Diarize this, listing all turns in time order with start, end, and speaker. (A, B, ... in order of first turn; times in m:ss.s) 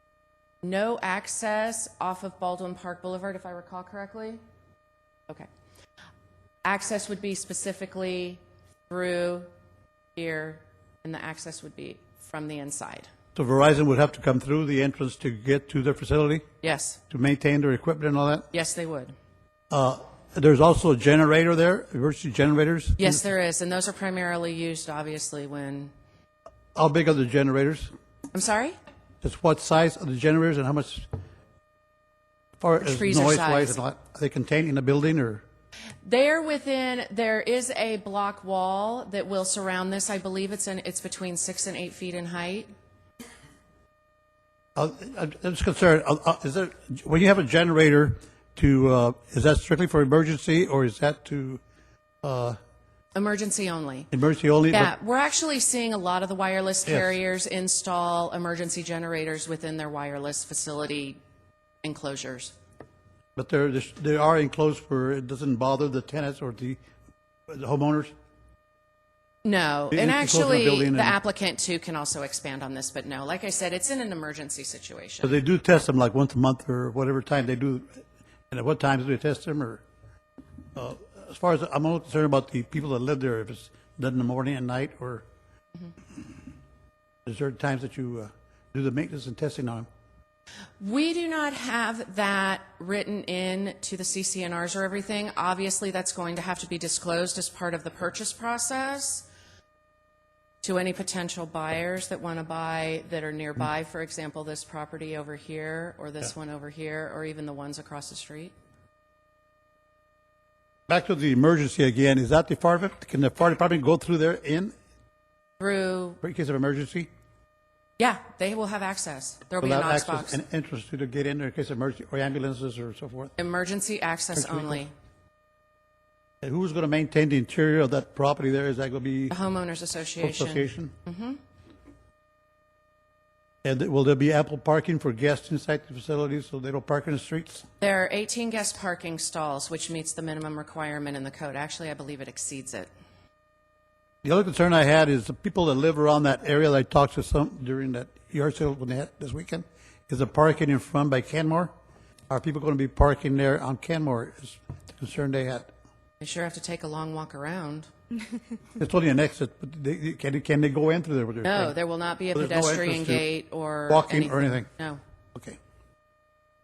0:00.6-0:04.4 A
0:06.6-0:09.5 A
0:10.1-0:13.1 A
0:13.3-0:16.4 B
0:16.6-0:17.0 A
0:17.1-0:18.4 B
0:18.5-0:19.1 A
0:19.7-0:23.2 B
0:23.0-0:25.9 A
0:26.7-0:27.9 B
0:28.3-0:28.8 A
0:29.2-0:31.1 B
0:32.6-0:35.4 B
0:32.8-0:33.8 A
0:36.0-0:42.7 A
0:44.8-0:51.6 B
0:52.2-0:52.6 B
0:53.1-0:54.1 A
0:54.1-0:54.9 B
0:54.7-1:01.2 A
0:56.8-0:57.1 B
1:01.8-1:02.5 A
1:03.4-1:06.8 B
1:07.5-1:08.1 B
1:09.4-1:15.4 A
1:09.9-1:11.2 B
1:15.2-1:19.8 B
1:20.7-1:25.2 B
1:27.2-1:29.9 B
1:30.8-1:39.3 A
1:40.6-1:48.5 A
1:50.9-1:54.7 B
1:55.6-1:56.2 A
1:56.2-1:57.1 B
1:58.0-2:00.4 A
1:59.6-2:03.3 B
2:03.4-2:04.9 A
2:04.3-2:04.8 B
2:06.4-2:09.4 B
2:09.3-2:11.4 A
2:10.2-2:10.9 B
2:13.6-2:17.6 B
2:17.8-2:22.9 A
2:24.2-2:31.7 B
2:32.3-2:35.7 B
2:36.2-2:37.9 A
2:38.8-2:41.7 B
2:41.4-2:45.0 A
2:42.3-2:43.2 B
2:43.9-2:44.7 B